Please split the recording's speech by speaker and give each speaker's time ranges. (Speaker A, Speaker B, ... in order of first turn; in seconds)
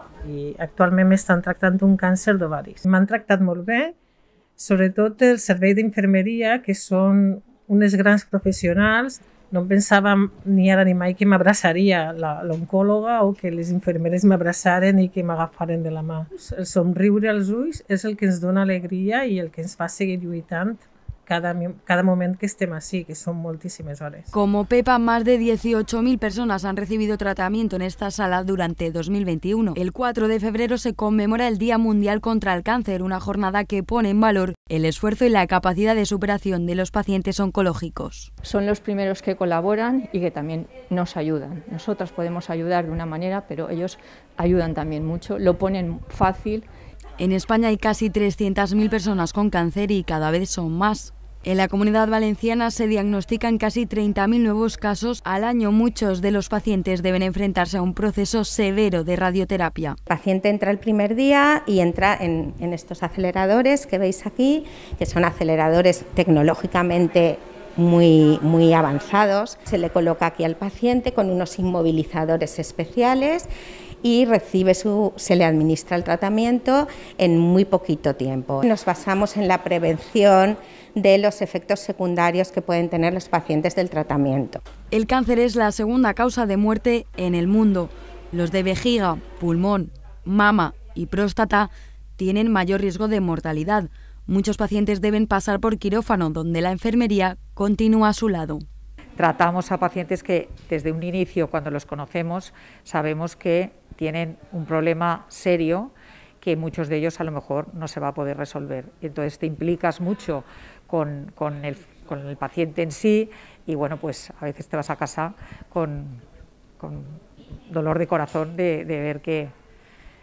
Speaker A: 0.2-3.9, 4.6-24.3
Speaker B: 24.3-38.3, 47.2-60.0, 84.9-98.6
Speaker C: 38.4-46.7
Speaker D: 60.1-73.5, 74.0-84.6
Speaker E: 99.2-116.2, 116.8-117.2, 117.7-119.5